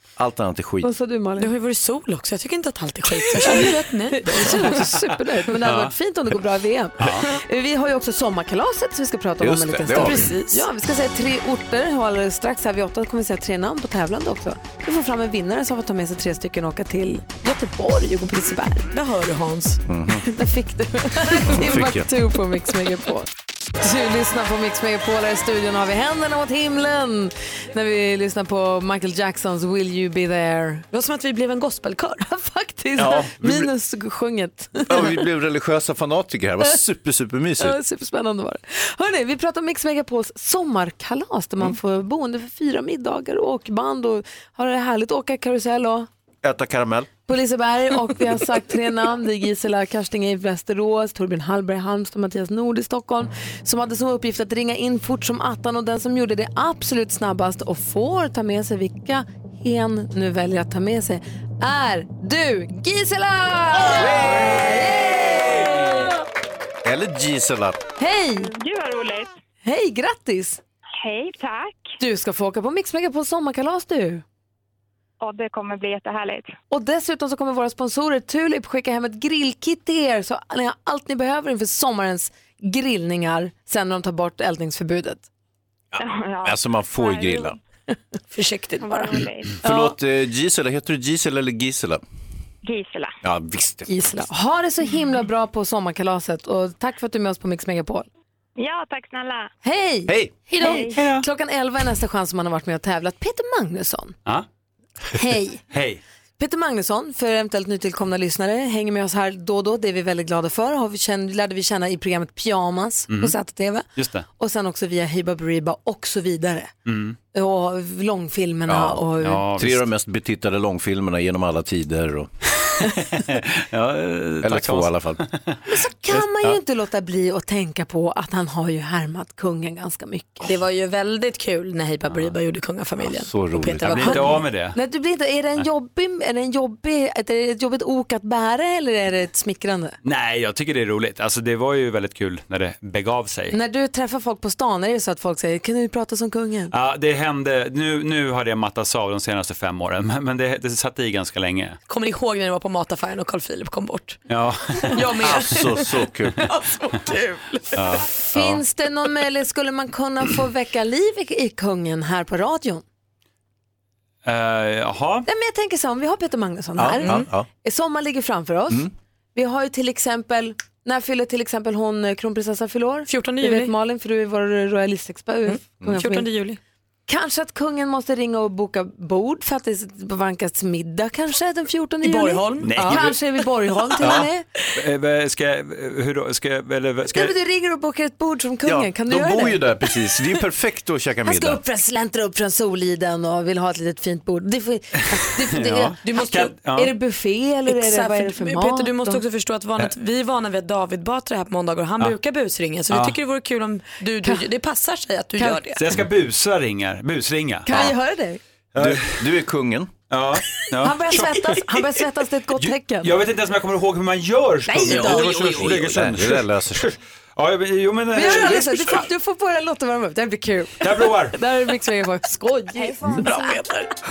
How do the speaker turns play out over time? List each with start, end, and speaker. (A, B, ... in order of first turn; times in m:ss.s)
0:00.2-0:00.9 A
0:00.8-0:01.5 B
0:01.4-0:04.9 C
0:03.4-0:18.9 B
0:05.6-0:05.9 D
0:07.0-0:07.3 D
0:09.4-0:10.3 A
0:09.9-0:10.6 C
0:18.9-0:19.8 C
0:19.9-0:20.3 A
0:20.3-0:30.9 B
0:21.4-0:22.1 A
0:30.9-0:32.2 C
0:32.3-0:35.3 B
0:33.0-0:33.7 A
0:34.9-0:37.8 A
0:37.6-0:46.1 B
0:46.4-0:47.1 A
0:47.3-1:06.1 B
1:03.8-1:04.8 A
1:06.8-1:07.8 A
1:08.0-1:08.5 B
1:08.4-1:09.3 E
1:09.6-1:10.6 B
1:11.0-1:11.9 E
1:12.0-1:14.2 B
1:15.2-1:16.5 E
1:16.7-1:25.2 B
1:25.9-1:27.6 A
1:26.0-1:27.5 E
1:28.3-1:29.2 C
1:28.9-1:29.6 E
1:29.6-1:32.0 A
1:32.6-1:33.2 E
1:33.2-1:34.2 A
1:33.9-1:38.1 B
1:38.6-1:39.5 E
1:39.6-1:44.2 B
1:40.1-1:40.4 A
1:40.6-1:41.0 E
1:40.9-1:41.2 D
1:45.2-1:45.6 B
1:45.7-1:46.0 D
1:46.4-1:56.7 B
1:53.1-1:53.4 D
1:54.0-1:54.3 D
1:56.9-1:57.2 D
1:57.3-1:59.5 B
1:58.7-2:02.3 A
1:59.2-1:59.8 D
2:02.7-2:05.6 D
2:04.4-2:05.2 A
2:05.7-2:10.5 B
2:06.1-2:06.5 D
2:10.4-2:14.4 C
2:13.0-2:14.1 A
2:13.8-2:14.8 D
2:14.0-2:20.0 B
2:20.0-2:23.6 D
2:23.5-2:26.7 B
2:26.7-2:31.8 D
2:31.9-2:34.2 C
2:34.3-2:35.2 D
2:34.8-2:37.8 C
2:35.1-2:36.4 A
2:37.7-2:38.6 D
2:38.2-2:42.8 B
2:44.2-2:45.3 D
2:45.3-2:56.3 B
2:46.8-2:47.5 A
2:47.0-2:47.3 C
2:53.1-2:53.7 C
2:55.5-2:56.6 C
2:57.1-3:04.5 B
3:02.0-3:03.0 C
3:02.6-3:03.2 D
3:04.0-3:04.3 A
3:04.8-3:07.3 D
3:07.1-3:09.6 B
3:08.6-3:11.6 A
3:11.2-3:19.2 B
3:15.0-3:16.9 D
3:16.0-3:16.6 C
3:17.7-3:25.8 C
3:22.9-3:23.2 D
3:25.4-3:25.6 B
3:25.8-3:27.9 D
3:27.7-3:28.4 B
3:28.8-3:29.3 D
3:28.8-3:29.9 A
3:30.1-3:31.7 D
3:30.8-3:33.2 B
3:32.6-3:39.1 D
3:34.8-3:36.9 A
3:38.1-3:43.5 B
3:40.8-3:41.4 D
3:43.1-3:43.9 C